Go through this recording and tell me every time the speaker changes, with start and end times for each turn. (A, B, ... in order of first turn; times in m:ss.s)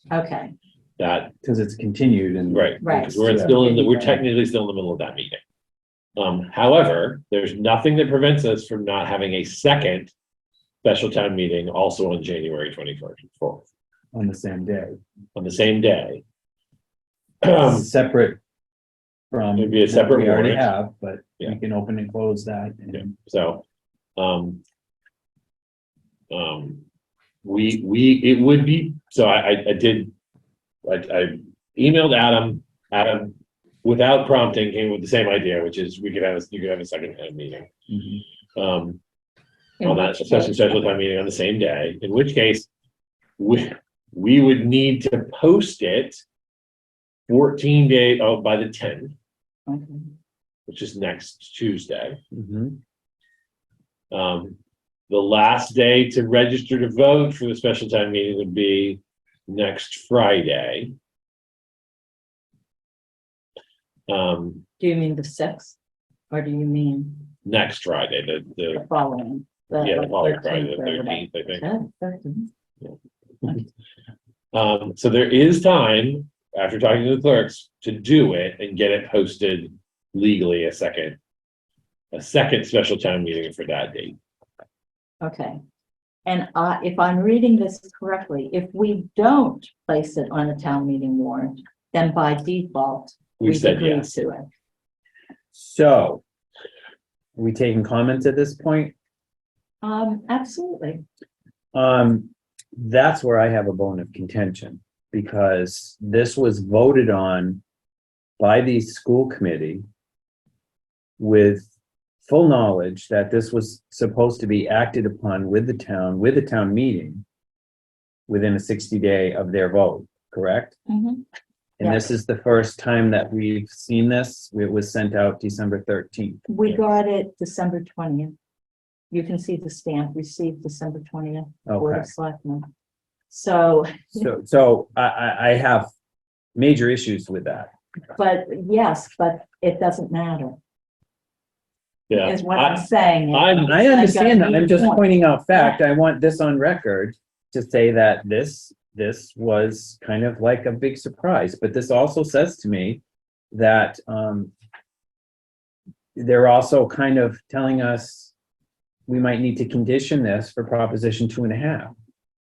0:00.1-0:00.6 A
0:01.0-0:01.3 B
0:01.4-0:03.6 C
0:02.5-0:05.4 B
0:02.8-0:04.2 A
0:06.2-0:10.1 B
0:10.8-0:13.7 B
0:14.1-0:15.0 C
0:15.4-0:16.2 B
0:17.4-0:17.9 B
0:17.6-0:18.4 C
0:19.3-0:23.1 C
0:19.6-0:20.7 B
0:23.0-0:23.6 B
0:24.2-0:24.6 B
0:26.3-0:26.8 B
0:27.4-0:30.1 B
0:30.8-0:37.7 B
0:37.9-0:38.2 C
0:38.6-0:39.0 B
0:39.8-0:40.8 A
0:39.8-0:42.7 B
0:43.4-0:46.2 B
0:47.3-0:49.2 B
0:49.7-0:50.1 A
0:50.7-0:52.2 B
0:52.3-0:52.8 C
0:54.1-0:54.6 B
0:55.1-1:00.9 B
1:04.1-1:04.6 B
1:04.8-1:05.8 A
1:06.3-1:07.3 A
1:07.4-1:08.8 B
1:08.7-1:12.5 A
1:09.8-1:11.7 B
1:14.5-1:21.2 B
1:22.1-1:24.2 B
1:25.2-1:25.6 A
1:26.3-1:34.5 A
1:33.4-1:34.1 B
1:35.5-1:36.2 C
1:37.4-1:38.9 C
1:39.8-1:41.0 A
1:41.7-1:47.6 C
1:48.4-1:49.8 C
1:51.2-1:51.7 C
1:52.2-1:57.2 C
1:58.3-2:00.8 C
2:00.9-2:01.2 A
2:01.8-2:06.8 C
2:01.8-2:02.1 A
2:06.5-2:08.4 A
2:09.1-2:12.7 A
2:11.7-2:12.1 C
2:13.3-2:14.3 A
2:14.2-2:15.9 C
2:16.6-2:17.7 C
2:18.2-2:20.6 A
2:22.1-2:23.8 B
2:22.2-2:25.8 A
2:23.7-2:34.5 C
2:36.2-2:38.3 C
2:39.1-2:41.9 C